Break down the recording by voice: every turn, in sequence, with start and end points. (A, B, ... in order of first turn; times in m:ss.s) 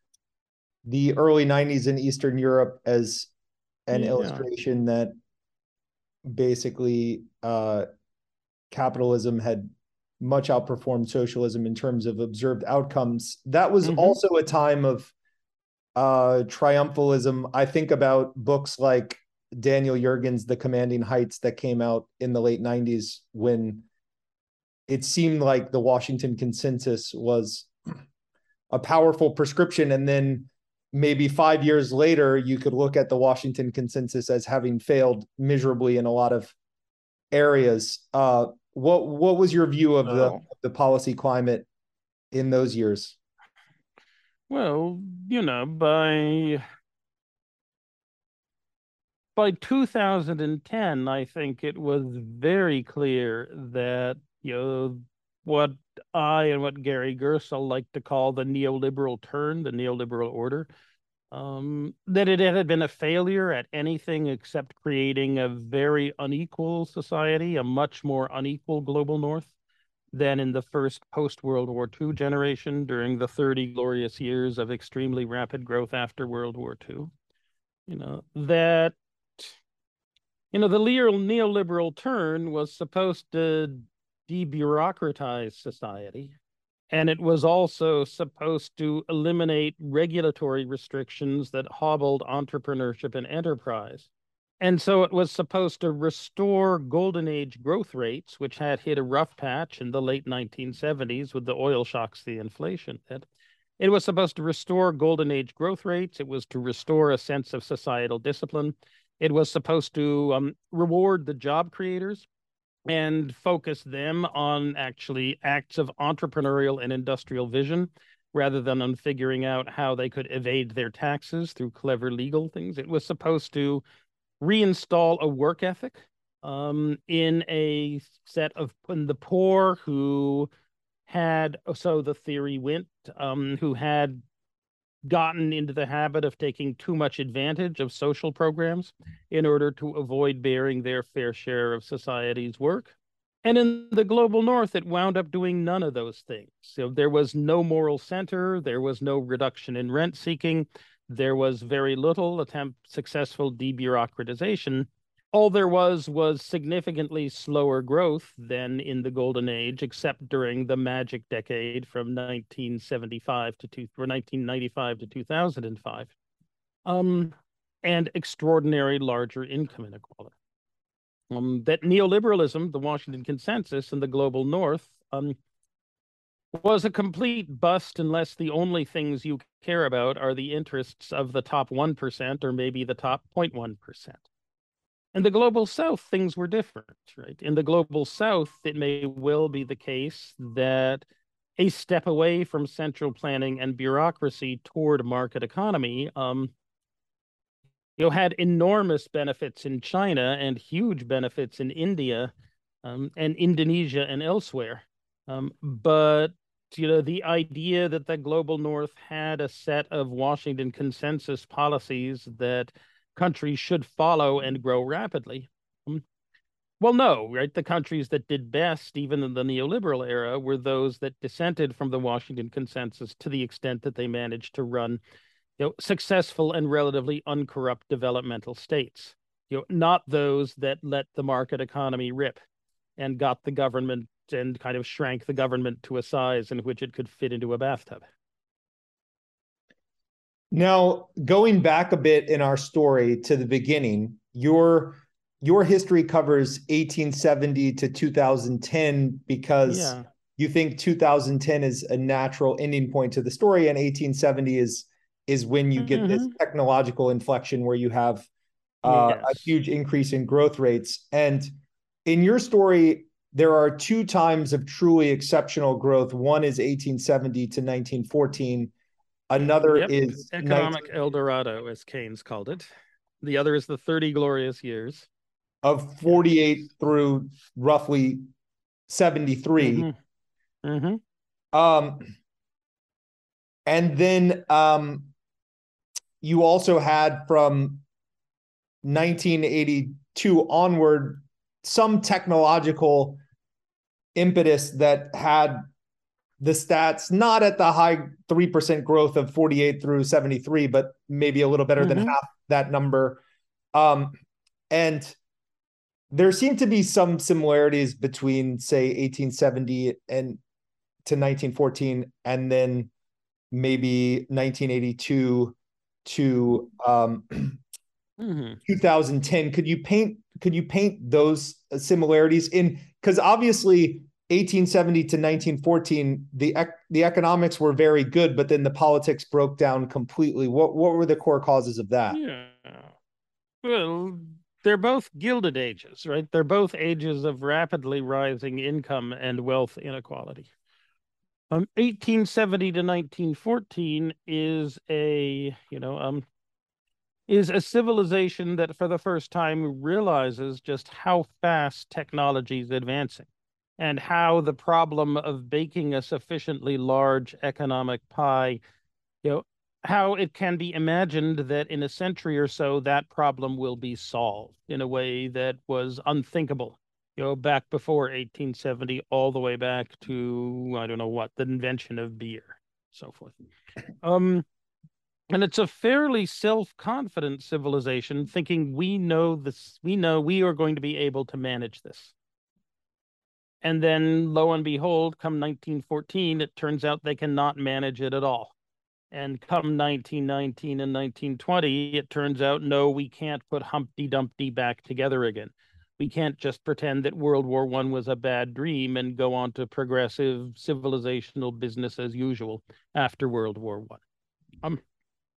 0:00.8-0:03.3 A
0:03.9-0:05.1 A
0:03.9-0:04.4 B
0:06.2-0:07.8 A
0:08.7-0:15.1 A
0:13.8-0:14.2 B
0:16.0-0:23.8 A
0:24.9-0:27.7 A
0:28.7-0:36.5 A
0:37.3-0:41.7 A
0:40.0-0:40.4 B
0:42.3-0:43.2 A
0:44.5-0:46.6 B
0:49.4-1:00.7 B
1:01.3-1:09.5 B
1:10.1-1:17.1 B
1:17.9-1:19.6 B
1:20.5-1:26.3 B
1:26.9-1:43.3 B
1:43.8-1:52.2 B
1:52.9-2:03.8 B
2:04.4-2:10.5 B
2:11.1-2:14.2 B
2:15.0-2:46.1 B
2:46.8-2:50.3 B
2:51.3-2:55.4 B
2:56.5-3:04.2 B
3:05.1-3:11.0 B
3:11.6-3:16.5 B
3:18.0-3:22.3 B
3:22.8-3:36.0 B
3:36.8-3:45.0 B
3:45.6-3:52.4 B
3:53.0-3:58.0 B
4:00.5-4:18.3 A
4:09.7-4:10.0 B
4:15.8-4:16.3 B
4:18.8-4:21.5 A
4:18.8-4:19.5 B
4:22.0-4:28.7 A
4:29.3-4:30.8 A
4:29.7-4:32.6 B
4:33.2-4:35.1 B
4:35.6-4:38.2 A
4:38.9-4:39.9 A
4:39.6-4:39.9 B
4:40.6-4:41.0 B
4:41.5-4:42.1 A
4:43.6-4:45.1 A
4:46.2-4:47.8 A
4:48.8-4:53.2 A
4:54.1-4:55.6 A
4:56.4-5:03.2 A
5:01.8-5:02.1 B
5:03.7-5:04.2 A
5:04.7-5:05.2 A
5:06.1-5:10.4 A
5:11.0-5:12.9 A
5:13.5-5:17.6 A
5:18.2-5:18.6 B
5:18.6-5:32.2 A
5:32.1-5:32.9 B
5:33.6-5:40.5 B
5:41.5-5:46.2 B
5:47.3-5:58.6 B
5:59.2-6:13.3 B
6:14.0-6:14.4 B
6:15.3-6:22.1 B
6:23.6-6:28.5 B
6:29.1-6:44.0 B